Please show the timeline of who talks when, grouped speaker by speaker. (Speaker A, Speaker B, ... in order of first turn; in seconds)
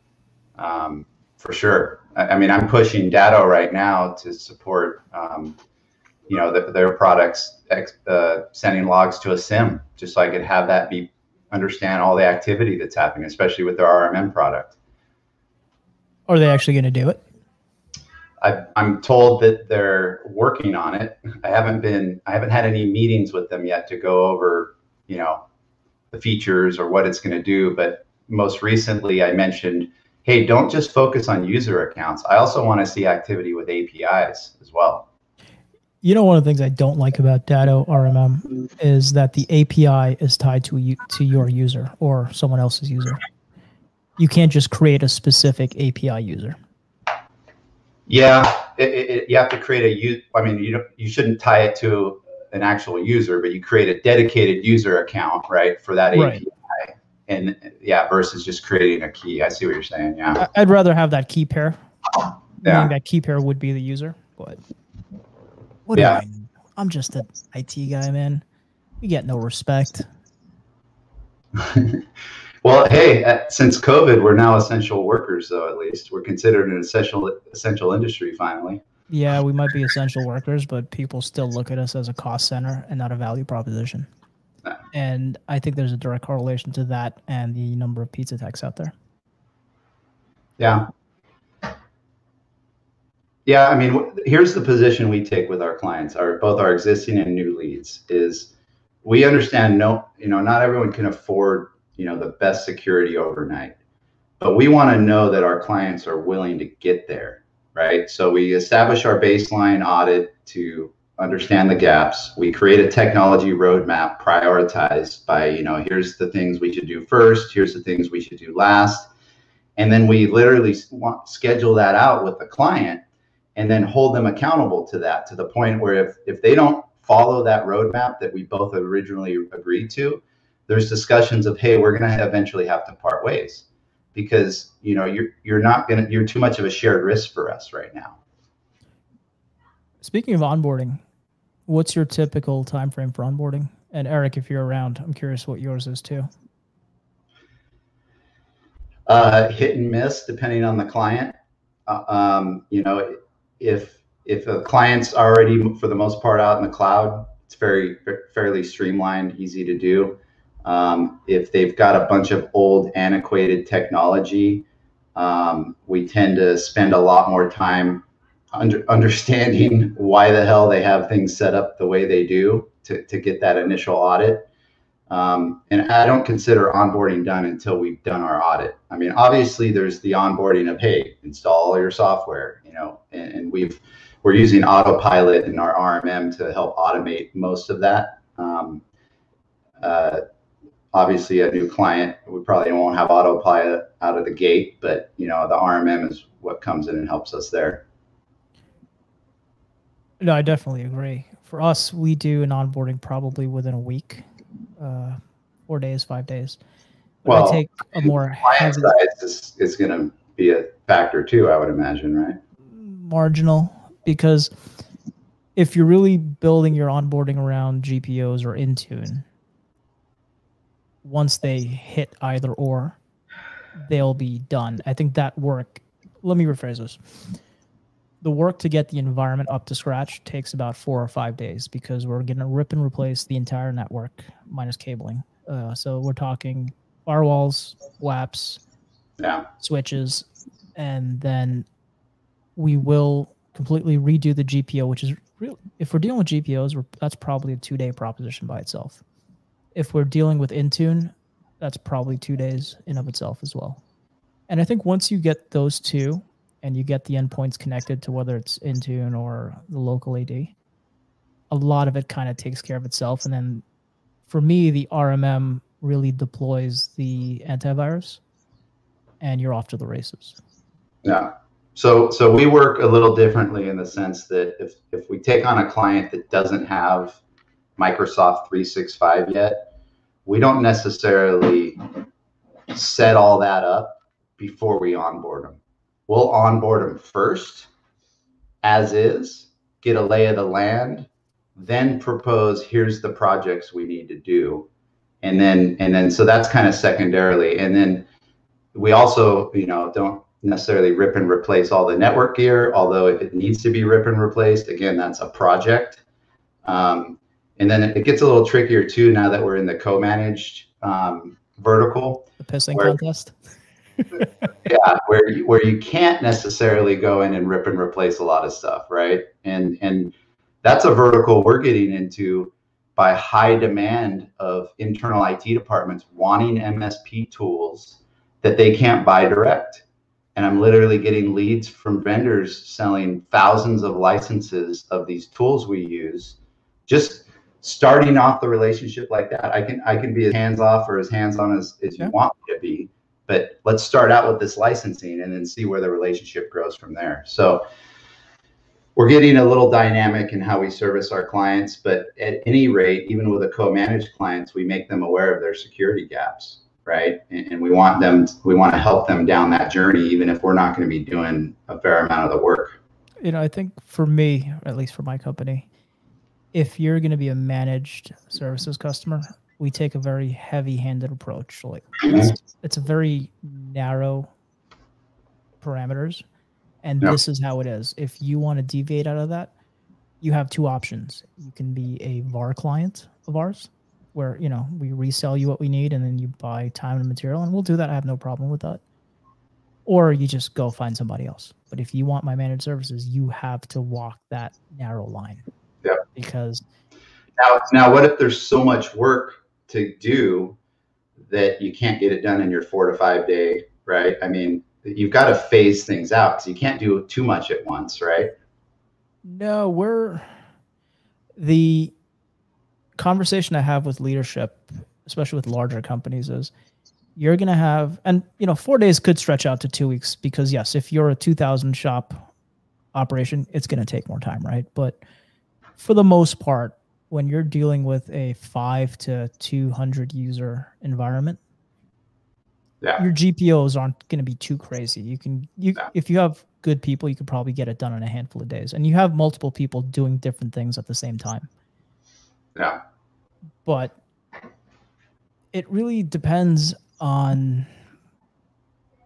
Speaker A: 0.6-5.6, 6.3-14.7, 18.4-25.4, 26.1-35.0, 48.1-60.4, 62.6-62.9, 65.9-66.2, 71.5-72.0, 72.6-78.8, 90.6-90.8, 93.5-98.5, 99.0-103.7, 104.4-119.1, 119.8-123.0, 123.5-138.2, 149.1-151.3, 151.9-174.4, 175.1-188.8, 189.8-190.2, 190.9-197.8, 207.2-212.4, 239.2-239.4, 271.0-277.2, 277.8-279.6, 280.2-281.8, 282.7-287.7, 288.6-294.7, 295.2-298.1, 298.7-306.0, 306.6-312.9, 314.6-329.8, 330.3-347.6, 348.9-362.8, 397.4-400.6, 401.3-408.3
Speaker B: 16.3-17.2, 36.0-43.2, 44.2-46.6, 56.1-56.4, 60.4-61.8, 62.6-64.6, 65.9-68.4, 69.0-70.0, 79.1-84.1, 84.9-88.9, 140.0-141.0, 141.7-146.3, 200.2-204.2, 204.8-206.6, 207.2-209.0, 212.7-214.5, 215.6-219.2, 221.0-223.0, 223.8-227.2, 228.2-238.6, 239.6-241.7, 242.6-249.0, 249.7-253.8, 254.5-260.5, 261.5-263.6, 264.3-268.2, 269.2-270.4, 312.4-313.3, 363.2-365.7, 366.5-374.3, 375.6-376.2, 376.8-379.5, 380.2-388.8, 389.9-395.4, 396.1-396.6, 409.2-410.3, 411.4-411.9, 413.0-416.5, 417.1-422.3, 422.9-425.0, 425.8-431.4, 433.0-441.5, 443.6-443.9, 445.5-447.7